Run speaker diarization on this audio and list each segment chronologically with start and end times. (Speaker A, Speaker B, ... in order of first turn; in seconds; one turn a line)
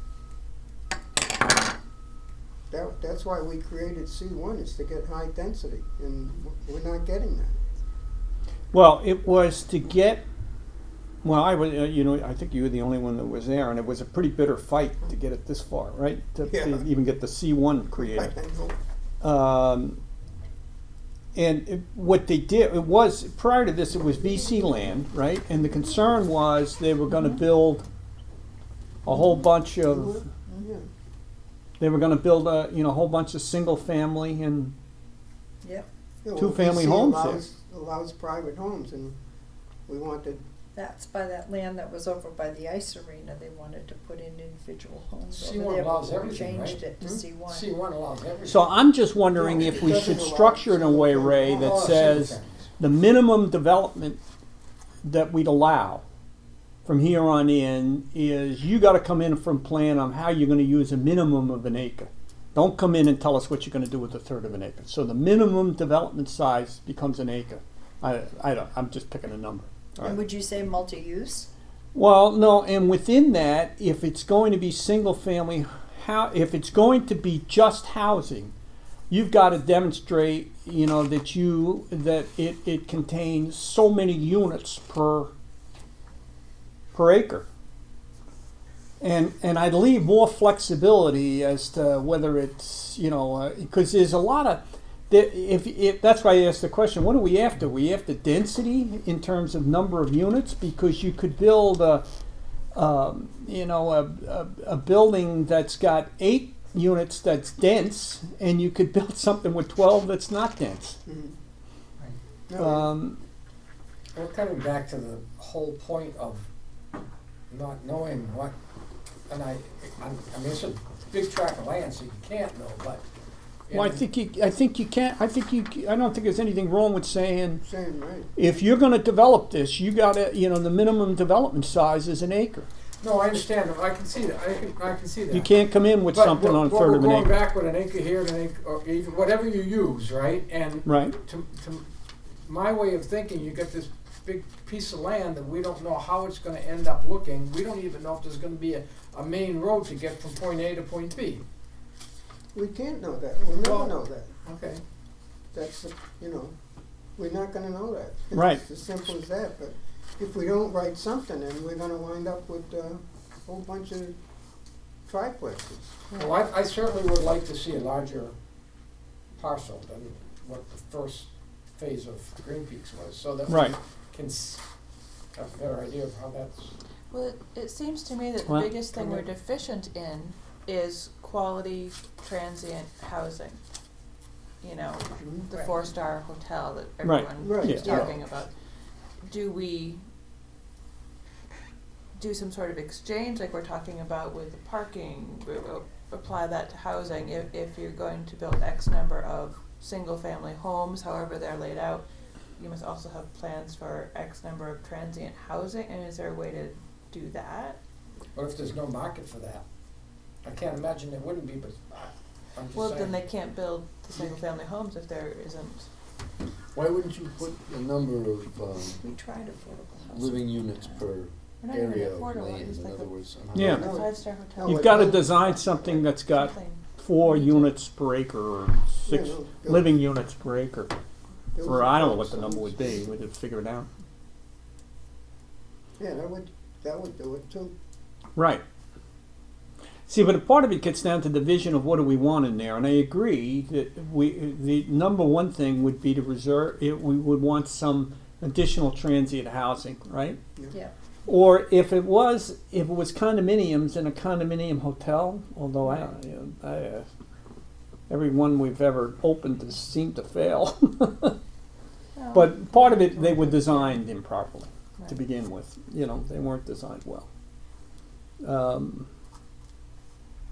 Speaker A: 2.7-7.6
Speaker B: 8.7-10.2
Speaker B: 11.2-18.3
Speaker A: 16.5-16.9
Speaker A: 18.0-18.8
Speaker B: 19.2-20.0
Speaker B: 21.4-27.8
Speaker B: 29.1-30.2
Speaker A: 29.1-30.9
Speaker B: 31.8-34.7
Speaker A: 36.2-39.2
Speaker B: 36.4-37.4
Speaker A: 39.9-40.4
Speaker C: 40.8-47.8
Speaker D: 45.3-46.9
Speaker D: 47.5-48.7
Speaker B: 48.5-54.2
Speaker A: 49.3-51.9
Speaker D: 51.4-52.7
Speaker B: 55.0-56.0
Speaker B: 56.9-70.2
Speaker C: 70.0-71.5
Speaker B: 71.9-78.5
Speaker B: 79.1-85.3
Speaker B: 86.9-87.5
Speaker B: 89.0-102.0
Speaker B: 102.8-111.0
Speaker A: 111.1-111.3
Speaker A: 112.5-112.9
Speaker B: 112.6-113.2
Speaker D: 114.2-116.5
Speaker D: 117.5-118.5
Speaker D: 119.3-123.0
Speaker D: 123.7-124.0
Speaker B: 123.7-127.6
Speaker A: 127.6-128.3
Speaker B: 128.4-132.7
Speaker D: 133.0-135.5
Speaker B: 135.3-137.4
Speaker D: 136.1-141.8
Speaker B: 140.8-141.2
Speaker D: 142.5-151.4
Speaker A: 152.5-154.3
Speaker D: 153.6-154.8
Speaker A: 155.5-156.6
Speaker A: 157.2-164.2
Speaker B: 158.3-158.6
Speaker A: 165.1-166.3
Speaker D: 166.1-168.3
Speaker D: 169.4-174.6
Speaker B: 173.5-173.8
Speaker D: 175.3-176.7
Speaker E: 177.1-183.6
Speaker B: 178.5-178.8
Speaker A: 178.9-179.2
Speaker E: 184.6-188.5
Speaker A: 185.2-185.4
Speaker B: 187.0-188.1
Speaker A: 187.4-188.1
Speaker C: 187.8-188.1
Speaker E: 189.2-190.0
Speaker E: 192.2-207.8
Speaker D: 208.3-209.6
Speaker D: 210.4-213.2
Speaker E: 212.7-215.9
Speaker F: 216.7-219.0
Speaker C: 218.9-221.1
Speaker F: 220.1-224.1
Speaker E: 221.6-223.1
Speaker B: 223.5-223.9
Speaker A: 223.6-225.4
Speaker E: 223.8-227.7
Speaker B: 224.6-230.9
Speaker A: 229.1-229.9
Speaker A: 231.6-233.2
Speaker B: 231.6-233.9
Speaker A: 236.0-237.8
Speaker B: 238.4-238.6
Speaker B: 240.1-250.4
Speaker B: 251.3-257.1
Speaker B: 258.1-261.4
Speaker E: 262.1-264.0
Speaker B: 262.3-267.3
Speaker B: 268.4-269.1